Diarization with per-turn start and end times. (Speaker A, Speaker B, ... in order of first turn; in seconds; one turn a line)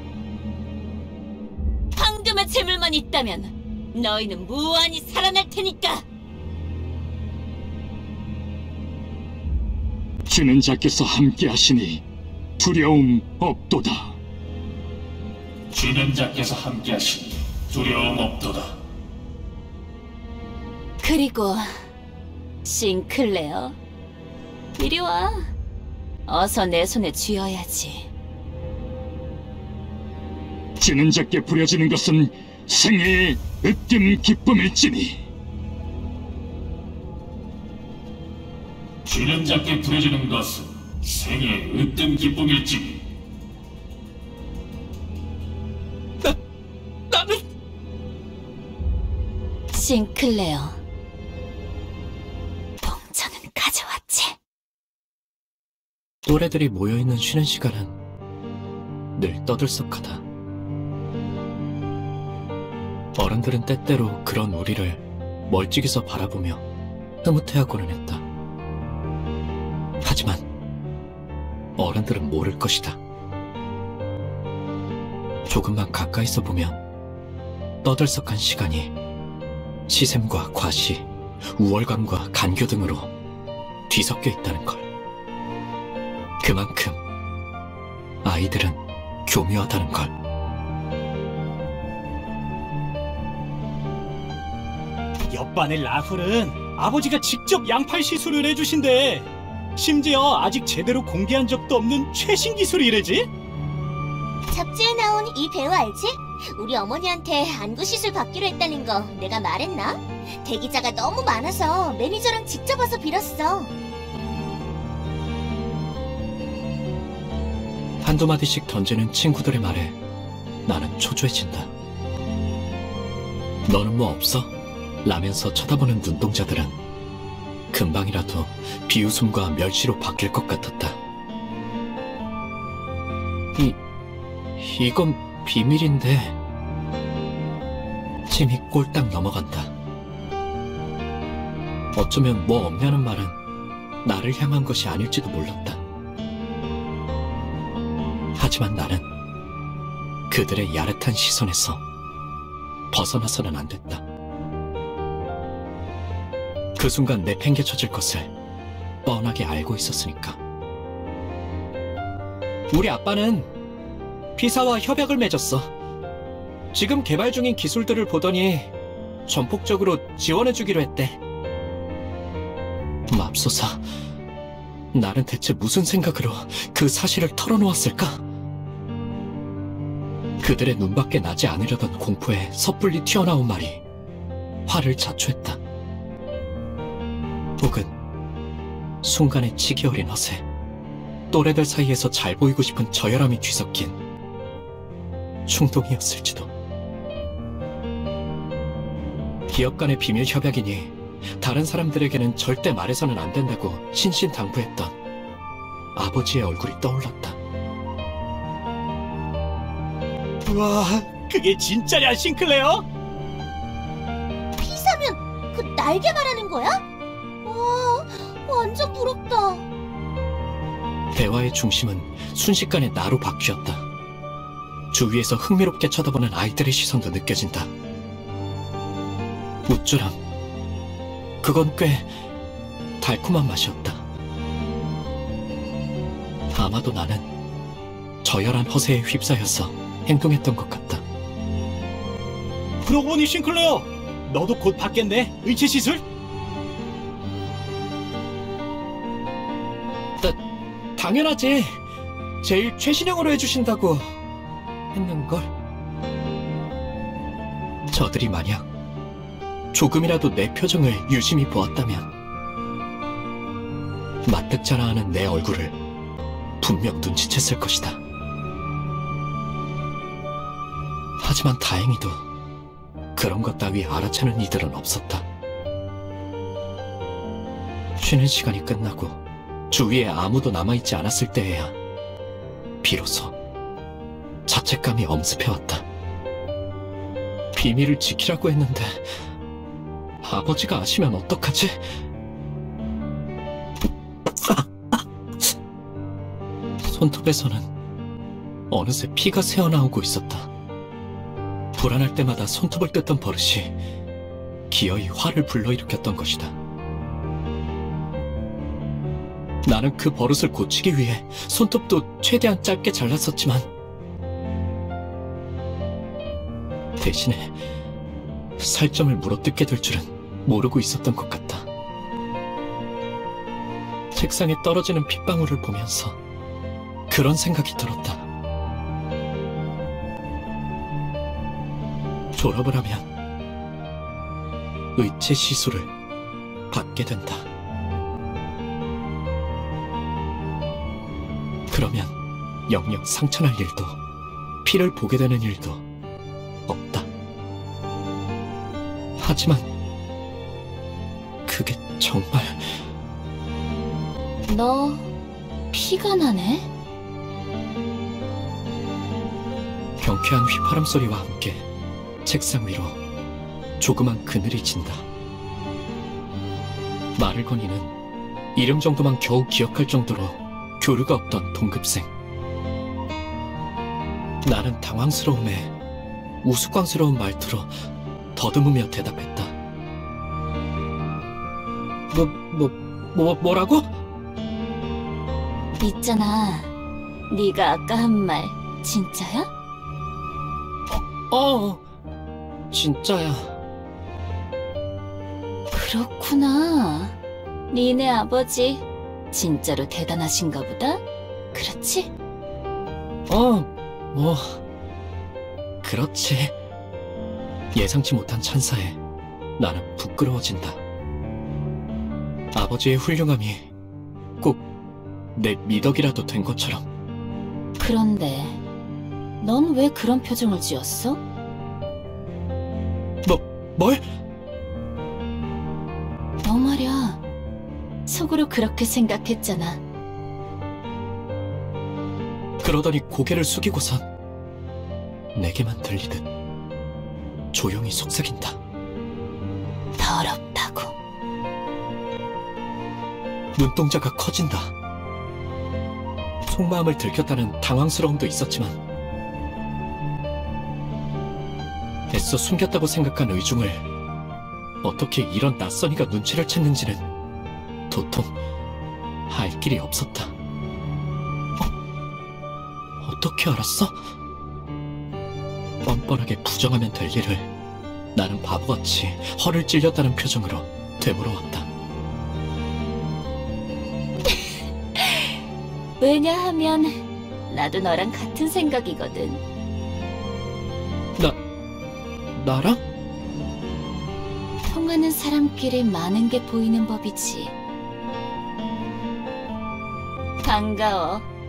Speaker A: 1.9-6.0
Speaker B: 10.2-12.0
Speaker B: 12.6-14.2
Speaker C: 15.7-18.8
Speaker A: 21.0-21.7
Speaker A: 22.6-23.8
Speaker A: 24.8-25.5
Speaker A: 26.2-28.1
Speaker B: 30.8-35.2
Speaker C: 39.0-43.0
Speaker D: 47.1-47.4
Speaker A: 49.7-50.8
Speaker A: 52.8-54.4
Speaker D: 56.2-57.9
Speaker D: 59.1-60.2
Speaker D: 63.1-66.6
Speaker D: 67.2-68.2
Speaker D: 70.0-70.4
Speaker D: 71.8-73.0
Speaker D: 75.5-76.8
Speaker D: 77.8-78.9
Speaker D: 79.9-83.1
Speaker D: 83.9-84.8
Speaker D: 86.4-87.0
Speaker D: 88.2-90.1
Speaker E: 95.3-103.3
Speaker F: 104.5-113.7
Speaker D: 118.0-120.0
Speaker D: 120.7-121.7
Speaker D: 123.7-124.5
Speaker D: 125.0-126.8
Speaker D: 127.7-131.0
Speaker D: 134.6-136.3
Speaker D: 138.3-139.7
Speaker D: 141.9-143.4
Speaker D: 144.0-145.8
Speaker D: 148.4-149.0
Speaker D: 150.3-151.8
Speaker D: 152.9-154.0
Speaker D: 156.8-158.3
Speaker D: 159.0-160.4
Speaker D: 162.7-163.5
Speaker D: 164.3-165.7
Speaker D: 166.7-168.7
Speaker D: 169.3-171.2
Speaker D: 173.1-173.8
Speaker D: 174.9-178.2
Speaker D: 180.4-183.8
Speaker D: 184.7-185.6
Speaker D: 187.6-187.9
Speaker D: 189.0-190.4
Speaker D: 191.3-194.0
Speaker D: 195.4-196.5
Speaker D: 199.5-204.9
Speaker D: 205.9-207.4
Speaker E: 210.4-212.8
Speaker F: 214.6-216.8
Speaker F: 217.4-219.6
Speaker D: 221.1-223.8
Speaker D: 224.9-227.7
Speaker D: 229.7-230.2
Speaker D: 231.4-232.1
Speaker D: 233.0-234.0
Speaker D: 236.5-237.2
Speaker D: 238.2-241.0
Speaker E: 242.8-246.0
Speaker D: 251.0-251.8
Speaker D: 252.4-254.1
Speaker D: 254.9-255.5
Speaker D: 257.9-258.6
Speaker D: 259.7-262.1
Speaker D: 264.2-265.7
Speaker D: 266.6-268.0
Speaker D: 271.2-272.2
Speaker D: 273.1-275.2
Speaker D: 278.0-279.2
Speaker D: 279.7-281.7
Speaker D: 282.8-283.3
Speaker D: 284.5-285.8
Speaker D: 287.5-289.1
Speaker D: 290.2-291.8
Speaker D: 294.3-295.5
Speaker D: 296.8-297.6
Speaker D: 298.7-300.5
Speaker D: 301.8-303.8
Speaker D: 304.7-306.6
Speaker D: 309.6-313.7
Speaker D: 317.0-317.6
Speaker D: 318.6-321.6
Speaker D: 324.1-326.2
Speaker D: 327.1-328.3
Speaker D: 332.3-333.0
Speaker D: 334.9-335.9
Speaker D: 336.7-337.4
Speaker D: 341.7-342.1
Speaker D: 342.7-344.0
Speaker D: 344.6-345.8
Speaker D: 346.7-347.1
Speaker D: 349.2-349.6
Speaker D: 351.4-352.8
Speaker A: 354.5-355.1
Speaker A: 355.7-356.7
Speaker D: 360.0-361.6
Speaker D: 362.2-363.0
Speaker D: 363.8-365.0
Speaker D: 367.1-367.9
Speaker D: 368.5-372.1
Speaker D: 374.4-375.7
Speaker D: 376.4-377.8
Speaker D: 378.3-379.5
Speaker D: 382.1-383.9
Speaker A: 385.8-386.7
Speaker A: 387.3-389.5
Speaker D: 390.9-391.8
Speaker D: 392.7-393.6
Speaker A: 395.7-397.1
Speaker A: 397.7-402.1
Speaker D: 403.3-404.6
Speaker D: 405.8-406.5
Speaker D: 407.7-409.0
Speaker D: 409.6-410.8
Speaker D: 412.5-413.6
Speaker D: 415.3-416.8
Speaker A: 417.8-418.6
Speaker A: 419.4-421.2
Speaker D: 423.2-424.0
Speaker A: 426.4-427.2
Speaker A: 428.1-429.8
Speaker D: 432.6-434.0
Speaker D: 435.3-436.2
Speaker D: 437.5-438.6
Speaker A: 440.0-440.9
Speaker D: 443.5-444.7
Speaker D: 446.5-448.8
Speaker D: 452.1-453.8
Speaker D: 454.8-457.0
Speaker D: 457.9-458.3
Speaker D: 459.3-460.3
Speaker D: 463.0-464.1
Speaker D: 465.8-467.5
Speaker D: 468.1-471.7
Speaker A: 476.0-479.4
Speaker D: 482.4-482.8
Speaker A: 484.7-487.5
Speaker A: 490.4-491.3